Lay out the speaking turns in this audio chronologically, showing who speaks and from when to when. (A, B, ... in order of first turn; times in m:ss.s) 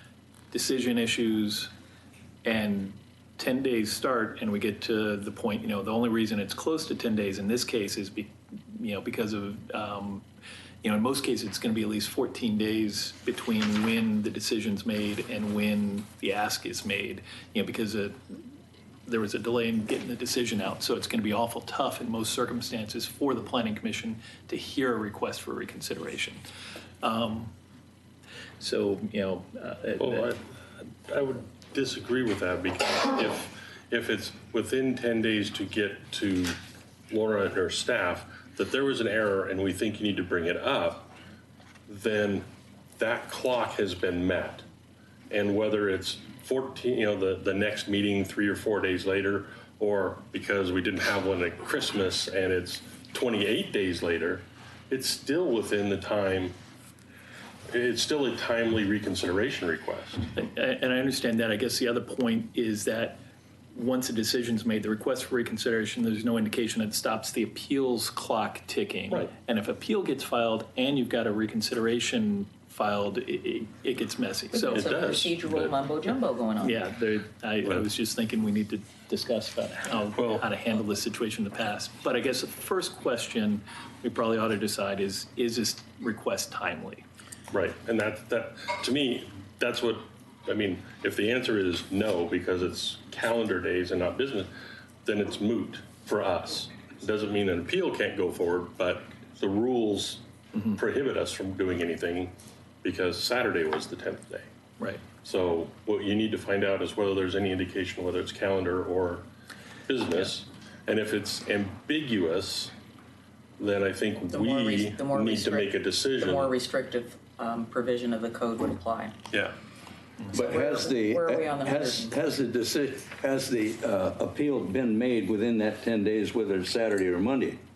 0:00.5-0:01.7 A
0:02.4-0:10.2 A
0:10.8-0:18.4 A
0:19.0-0:26.4 A
0:27.0-0:27.5 A
0:28.6-0:30.4 A
0:30.0-0:30.4 B
0:31.1-0:36.6 B
0:37.1-0:41.1 B
0:41.9-0:42.4 B
0:43.0-0:44.6 B
0:45.3-0:56.5 B
0:57.7-1:00.3 B
1:00.3-1:03.2 A
1:03.7-1:14.9 A
1:14.5-1:16.8 C
1:14.7-1:15.8 B
1:16.6-1:27.0 A
1:20.1-1:20.4 B
1:27.5-1:34.5 B
1:35.0-1:44.5 B
1:40.5-1:40.8 A
1:45.2-1:49.2 B
1:49.9-1:52.7 B
1:53.6-1:56.5 B
1:54.3-1:59.2 C
2:00.3-2:02.2 C
2:00.3-2:07.6 D